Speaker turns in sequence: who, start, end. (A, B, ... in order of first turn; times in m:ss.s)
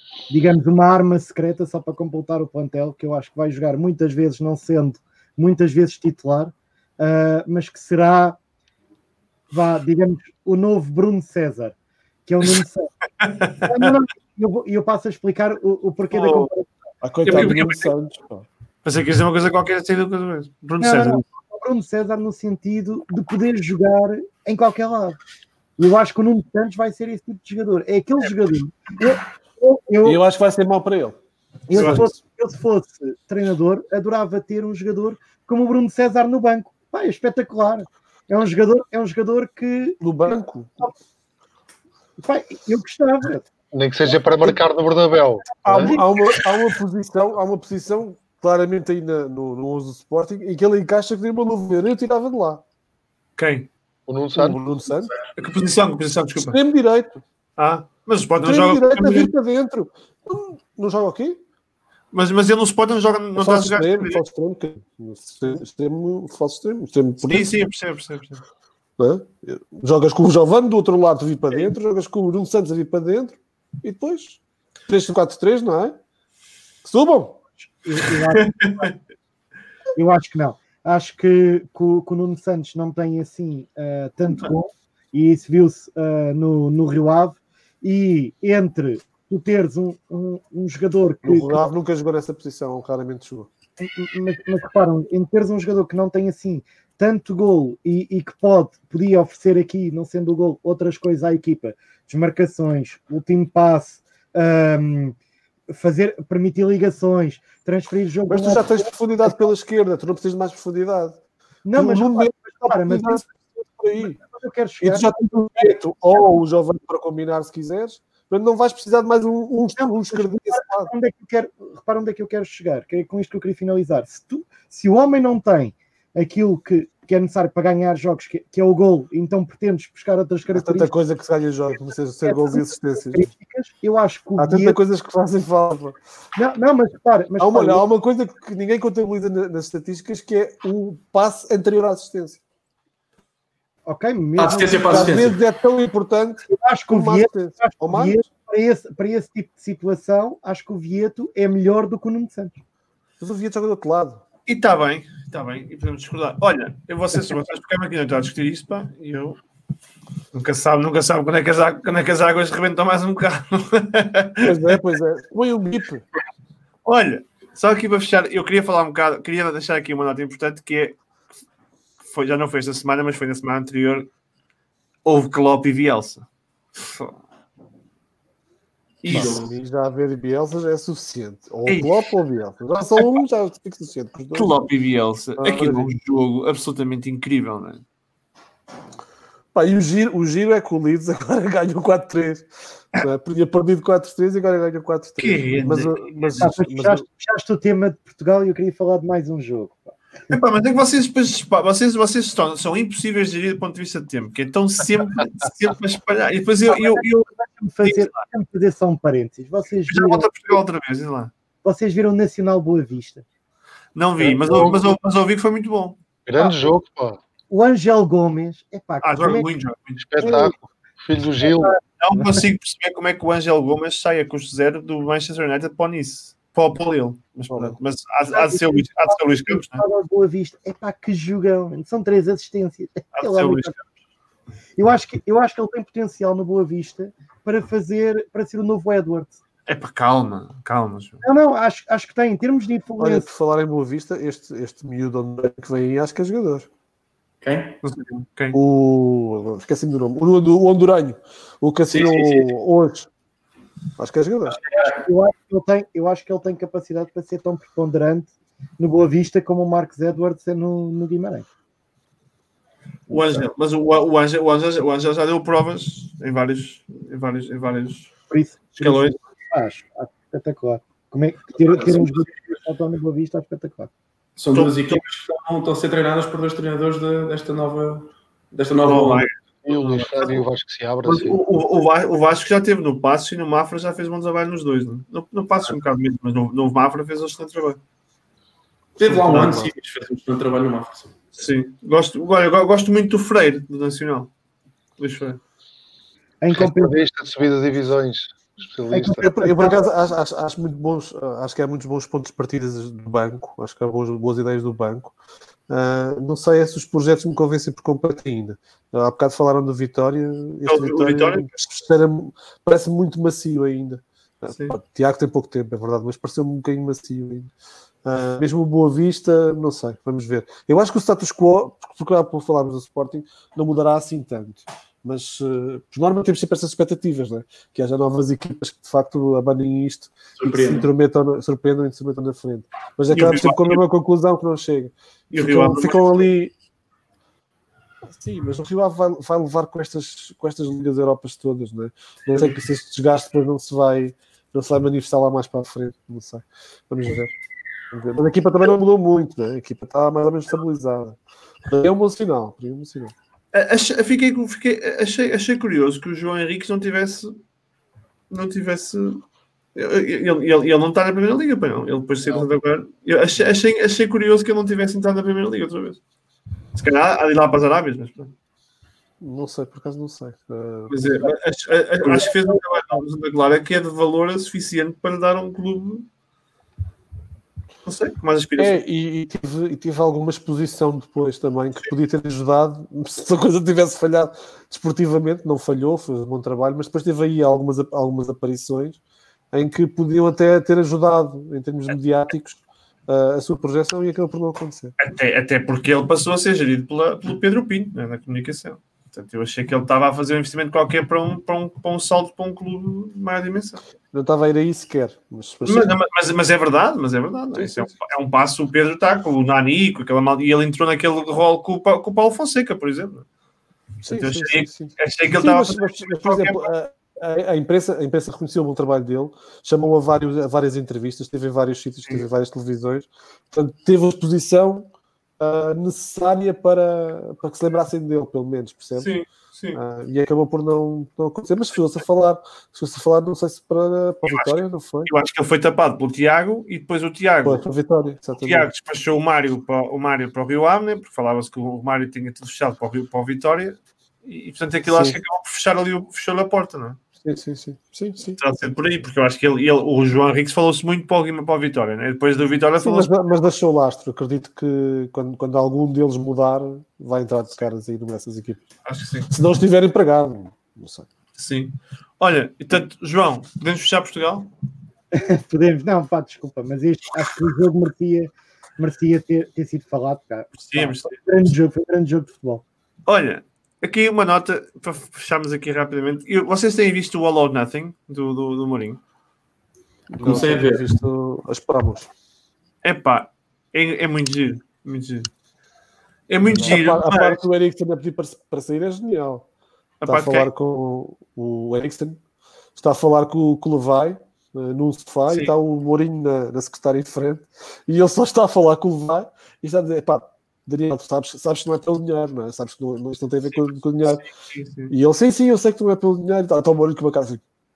0:00.3-0:08.4 A
0:09.5-0:11.8 A
0:12.3-0:12.9 A
0:13.2-0:13.9 B
0:13.6-0:16.8 A
0:16.1-0:16.5 B
0:17.0-0:18.5 C
0:17.2-0:17.9 B
0:18.8-0:21.2 B
0:20.8-0:25.2 A
0:25.8-0:30.2 A
0:30.0-0:31.2 C
0:31.7-0:40.0 A
0:31.7-0:32.0 B
0:31.7-0:32.1 C
0:40.0-0:40.9 C
0:42.2-0:43.5 A
0:43.7-0:45.9 D
0:45.6-0:52.6 C
0:53.4-0:53.7 B
0:54.1-0:54.6 D
0:54.4-0:55.1 C
0:55.4-0:56.6 B
0:56.4-0:57.2 C
0:57.6-0:59.3 B
0:58.4-1:01.4 C
1:02.1-1:04.2 B
1:03.4-1:07.5 C
1:07.2-1:08.4 B
1:09.0-1:16.0 C
1:16.8-1:17.4 C
1:17.8-1:18.9 A
1:18.3-1:18.9 B
1:20.0-1:31.6 A
1:31.2-1:33.5 C
1:33.8-1:45.2 A
1:45.7-1:49.3 A
1:48.3-1:51.2 C
1:51.7-1:53.2 A
1:51.8-1:54.2 C
1:54.2-1:55.1 A
1:54.8-2:00.9 C
1:59.8-2:10.9 A
2:10.5-2:13.3 C
2:12.2-2:14.8 A
2:14.4-2:16.0 C
2:16.4-2:17.8 A
2:17.4-2:22.4 C
2:23.9-2:25.2 A
2:24.4-2:25.4 E
2:24.9-2:28.2 C
2:26.5-2:32.6 A
2:33.2-2:34.2 C
2:34.5-2:39.4 B
2:40.3-2:44.8 B
2:44.4-2:46.1 C
2:46.8-2:51.0 B
2:52.0-2:54.1 B
2:55.0-2:57.2 B
2:59.0-2:59.5 B
2:59.1-2:59.4 E
2:59.1-3:04.5 C
3:01.7-3:02.1 B
3:04.4-3:07.8 B
3:05.4-3:05.9 C
3:09.5-3:17.0 C
3:15.2-3:16.5 B
3:16.4-3:19.9 A
3:20.3-3:27.3 B
3:26.7-3:30.5 A
3:27.8-3:28.2 B
3:29.9-3:31.3 B
3:31.6-3:33.2 A
3:34.0-3:36.0 B
3:34.2-3:34.8 D
3:36.3-3:37.2 D
3:36.4-3:36.7 A
3:37.5-3:39.5 A
3:39.0-3:40.4 B
3:40.0-3:41.8 D
3:40.2-3:40.5 A
3:41.4-3:42.4 A
3:42.0-3:49.8 B
3:48.3-3:53.8 A
3:53.2-3:53.8 B
3:54.8-3:59.4 A
3:59.7-4:01.2 B
4:01.2-4:03.3 A
4:03.0-4:06.7 C
4:07.4-4:07.8 E
4:07.8-4:08.6 B
4:08.5-4:13.1 C
4:11.9-4:12.5 E
4:14.0-4:14.6 C
4:14.7-4:15.0 E
4:14.8-4:21.4 A
4:23.1-4:28.1 B
4:28.3-4:33.9 A
4:28.8-4:29.2 B
4:34.4-4:39.3 E
4:34.6-4:35.0 B
4:38.8-4:40.4 B
4:39.6-4:41.4 D
4:41.1-4:47.8 B
4:49.0-4:51.2 E
4:49.1-4:49.7 C
4:51.4-4:54.3 B
4:55.0-4:55.4 B
4:56.4-4:57.0 A
4:56.5-4:59.2 D
4:58.9-4:59.9 A
4:59.1-5:05.2 C
5:05.7-5:17.5 C
5:10.7-5:11.5 B
5:14.5-5:14.8 B
5:18.0-5:36.5 C
5:30.4-5:30.9 E
5:33.1-5:33.8 B
5:35.3-5:36.2 B
5:38.1-5:47.3 C
5:47.9-5:53.1 C
5:53.5-5:57.4 B
5:58.3-5:59.2 B
5:59.8-6:06.0 B
6:06.8-6:08.3 B
6:09.2-6:11.0 C
6:10.9-6:16.1 B
6:12.2-6:12.5 A
6:17.9-6:18.8 B
6:18.6-6:29.0 C
6:29.5-6:34.9 C
6:35.0-6:43.8 B
6:44.1-6:45.9 C
6:45.7-6:53.3 B
6:47.5-6:47.9 C
6:54.0-7:04.9 C
6:54.1-6:56.7 B
7:05.4-7:09.1 C
7:09.0-7:09.8 B
7:09.7-7:15.1 C
7:14.3-7:17.6 B
7:17.4-7:18.7 C
7:18.4-7:27.0 B
7:24.9-7:25.2 C
7:27.2-7:28.4 C
7:28.4-7:33.4 B
7:32.8-7:38.6 C
7:38.8-7:39.3 B
7:39.3-7:41.1 C
7:41.4-7:44.5 B
7:45.1-7:52.6 A
7:50.6-7:51.2 B
7:53.1-7:59.0 B
8:00.1-8:02.1 C
8:00.2-8:00.9 E
8:02.8-8:05.3 B
8:06.3-8:07.4 B
8:06.5-8:09.5 C
8:10.0-8:10.5 B
8:10.1-8:12.2 C
8:12.8-8:24.2 C
8:15.3-8:15.5 B
8:24.5-8:24.9 B
8:24.9-8:27.4 C